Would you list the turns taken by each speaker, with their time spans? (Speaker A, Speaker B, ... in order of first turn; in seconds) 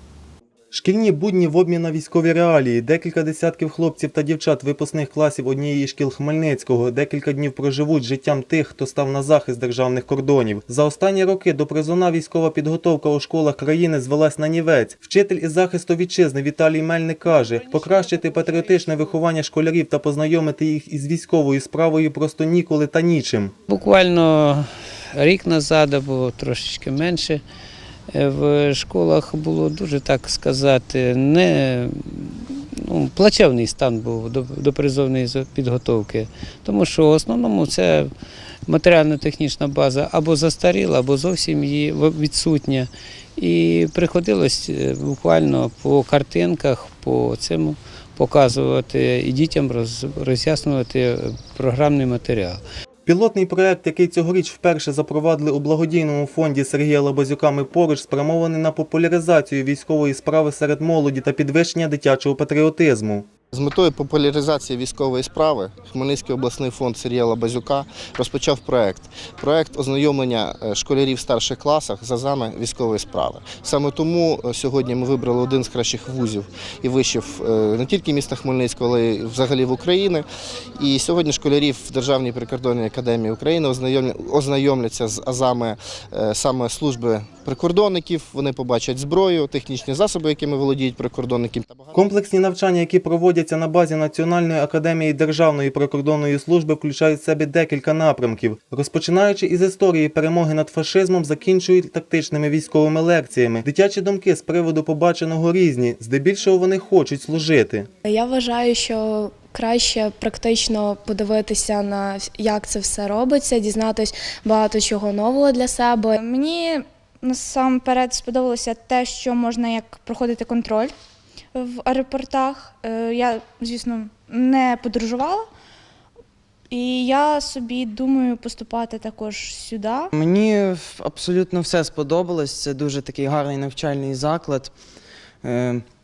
Speaker A: 0.7-23.5, 53.0-63.2, 91.9-107.9
Speaker B: 17.3-19.1, 23.7-27.4, 28.1-38.1, 38.7-52.6
Speaker C: 63.5-80.2, 80.8-92.0
Speaker D: 108.0-116.2
Speaker E: 117.3-120.9, 121.6-125.4, 126.7-130.1
Speaker F: 130.1-134.7, 135.4-135.8